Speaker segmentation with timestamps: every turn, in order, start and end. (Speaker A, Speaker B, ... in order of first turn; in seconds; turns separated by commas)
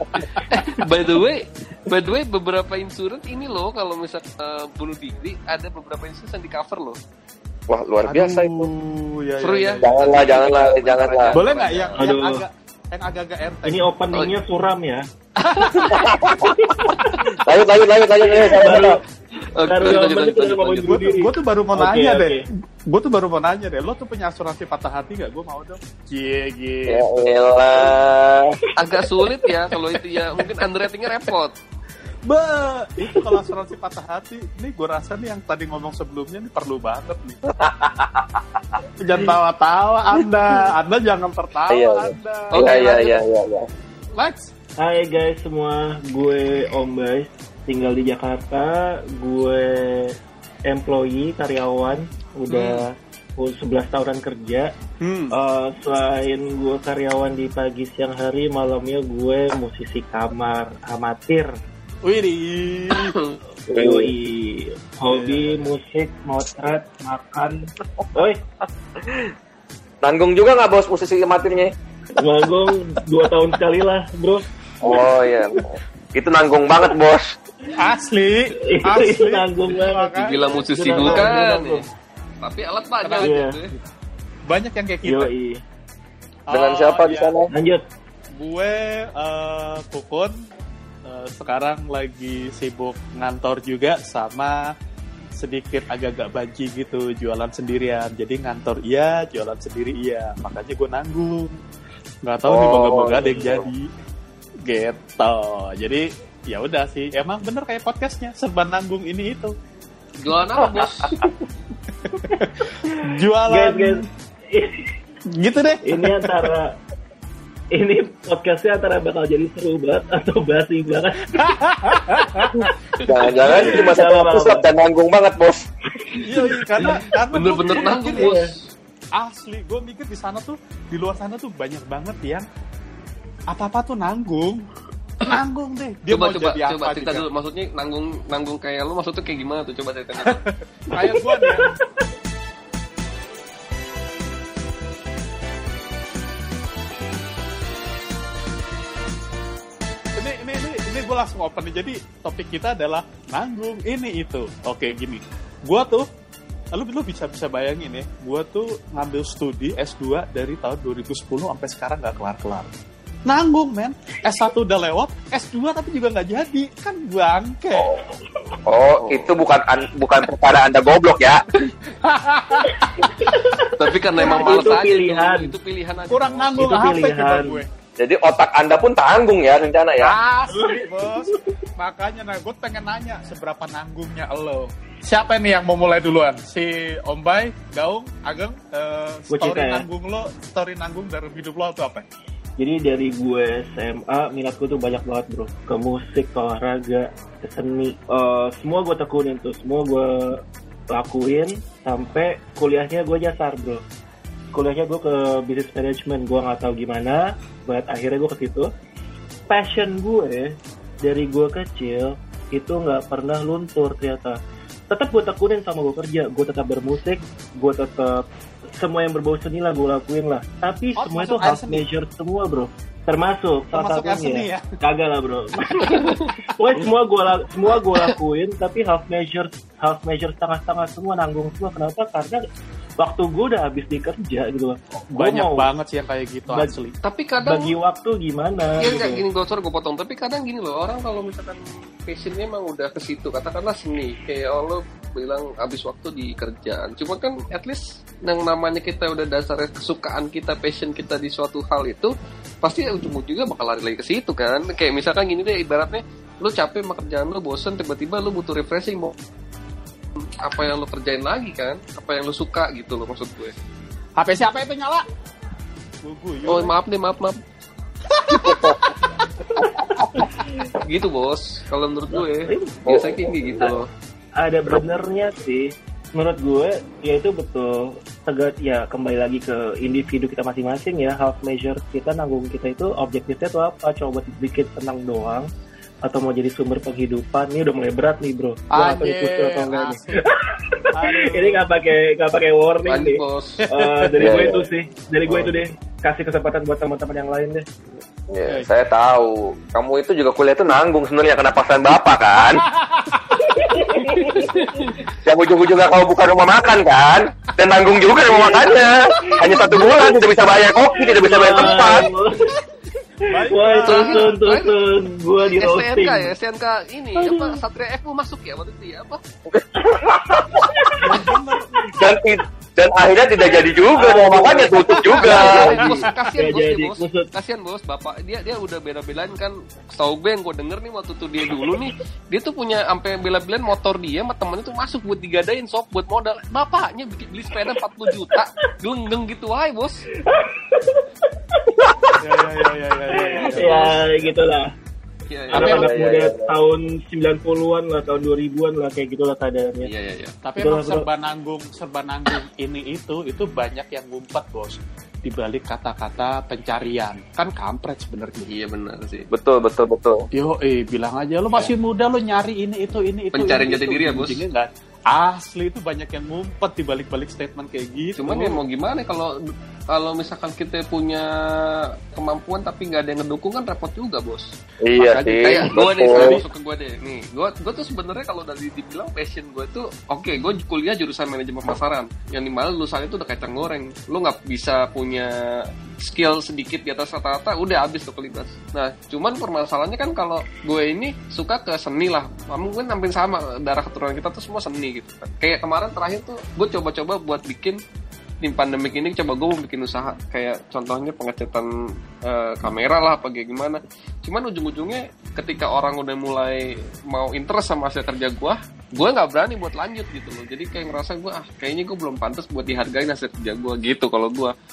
Speaker A: 0.5-7.0, Speaker B: 7.7-8.7, Speaker C: 8.1-9.9, Speaker A: 9.4-12.1, Speaker B: 9.8-11.3, Speaker C: 11.3-13.9, Speaker D: 12.0-12.5, Speaker D: 13.7-15.0, Speaker C: 15.4-16.2, Speaker B: 15.8-16.7, Speaker D: 16.4-17.2, Speaker B: 17.4-19.0, Speaker D: 18.2-22.5, Speaker A: 19.6-21.0, Speaker C: 20.9-27.3, Speaker B: 26.9-28.6, Speaker A: 28.8-31.6, Speaker C: 32.3-37.4, Speaker D: 33.0-33.4, Speaker B: 37.6-38.8, Speaker C: 39.0-42.9, Speaker B: 41.7-43.7, Speaker A: 42.5-43.2, Speaker C: 44.2-44.5, Speaker D: 44.8-50.2, Speaker D: 50.7-54.7, Speaker A: 52.5-52.8, Speaker C: 55.0-55.3, Speaker D: 55.3-61.5, Speaker C: 62.0-63.2, Speaker A: 63.0-63.4, Speaker D: 63.7-68.4, Speaker B: 63.7-64.1, Speaker C: 65.1-65.7, Speaker B: 69.0-69.3, Speaker B: 70.0-71.7, Speaker D: 72.2-75.6, Speaker B: 74.8-77.3, Speaker C: 77.8-81.5, Speaker D: 78.6-81.8, Speaker A: 80.2-81.8, Speaker A: 82.4-83.7, Speaker C: 83.0-83.3, Speaker D: 83.2-83.6, Speaker C: 84.5-85.3, Speaker D: 85.0-85.6, Speaker C: 86.5-87.3, Speaker B: 86.5-87.5, Speaker D: 87.5-87.8, Speaker C: 88.4-90.3, Speaker C: 91.1-94.7, Speaker C: 95.4-101.6, Speaker C: 102.2-103.9, Speaker B: 102.5-103.7, Speaker C: 104.6-109.5, Speaker A: 110.2-111.1, Speaker B: 110.6-111.3, Speaker C: 112.1-114.1, Speaker D: 113.0-114.9, Speaker C: 115.3-116.5, Speaker D: 115.8-116.8, Speaker D: 117.7-121.6, Speaker C: 121.3-122.7, Speaker D: 123.0-124.7, Speaker B: 123.0-125.6, Speaker D: 126.0-127.0, Speaker C: 126.2-128.4, Speaker A: 127.3-128.6, Speaker D: 128.2-128.5, Speaker C: 129.2-132.5, Speaker C: 133.5-134.7, Speaker C: 135.3-137.2, Speaker A: 136.1-140.4, Speaker C: 140.2-141.7, Speaker D: 140.9-142.0, Speaker C: 150.2-156.1, Speaker C: 156.8-162.7, Speaker C: 163.3-167.9, Speaker B: 168.7-171.4, Speaker A: 169.0-169.4, Speaker C: 171.9-173.3, Speaker D: 173.1-175.5, Speaker A: 173.7-176.8, Speaker C: 174.2-174.7, Speaker C: 176.1-177.7, Speaker D: 176.6-177.6, Speaker B: 178.0-180.1, Speaker C: 180.0-192.0, Speaker D: 180.5-181.6, Speaker D: 189.3-189.9, Speaker D: 192.6-203.8, Speaker D: 204.5-208.7, Speaker D: 209.5-210.5, Speaker D: 211.0-214.4, Speaker D: 214.9-218.2, Speaker D: 218.8-232.4, Speaker C: 221.0-221.8, Speaker C: 223.7-224.7, Speaker A: 225.9-226.3, Speaker D: 233.0-235.7, Speaker C: 235.2-237.0, Speaker A: 237.0-237.7, Speaker D: 237.4-239.2, Speaker A: 238.8-252.1, Speaker A: 252.6-259.1, Speaker A: 260.3-263.5, Speaker C: 264.2-265.1, Speaker C: 266.0-266.8, Speaker A: 266.4-267.4, Speaker C: 268.1-270.0, Speaker B: 268.3-268.8, Speaker B: 269.6-270.3, Speaker D: 270.2-270.7, Speaker A: 270.8-273.9, Speaker D: 272.1-273.7, Speaker B: 272.9-273.7, Speaker D: 274.4-285.5, Speaker D: 286.1-297.7, Speaker C: 288.7-290.3, Speaker C: 290.9-291.7, Speaker A: 292.9-293.6, Speaker C: 293.6-294.5, Speaker B: 294.2-294.6, Speaker B: 298.3-302.6, Speaker C: 302.7-303.4, Speaker D: 303.4-304.8, Speaker B: 305.1-312.1, Speaker D: 308.2-310.3, Speaker D: 310.9-312.6, Speaker D: 313.2-316.3, Speaker C: 313.3-314.3, Speaker A: 313.8-314.8, Speaker A: 315.4-319.2, Speaker D: 317.2-317.6, Speaker B: 319.5-321.3, Speaker D: 320.5-321.2, Speaker C: 321.0-321.9, Speaker B: 321.9-326.0, Speaker D: 323.9-327.3, Speaker C: 325.1-326.1, Speaker A: 325.2-340.1, Speaker D: 331.4-331.8, Speaker D: 340.2-344.7, Speaker C: 342.2-344.2, Speaker A: 343.6-344.0, Speaker A: 345.3-345.9, Speaker D: 345.5-349.9, Speaker B: 345.5-346.6, Speaker A: 349.8-350.3, Speaker C: 350.4-358.5, Speaker D: 350.6-351.1, Speaker A: 358.5-359.3, Speaker B: 359.3-360.3, Speaker C: 360.4-368.6, Speaker A: 363.3-364.4, Speaker A: 368.2-369.3, Speaker A: 369.9-374.5, Speaker B: 374.8-376.4, Speaker C: 375.0-376.4, Speaker A: 375.1-397.8, Speaker A: 398.4-401.7, Speaker A: 402.2-414.5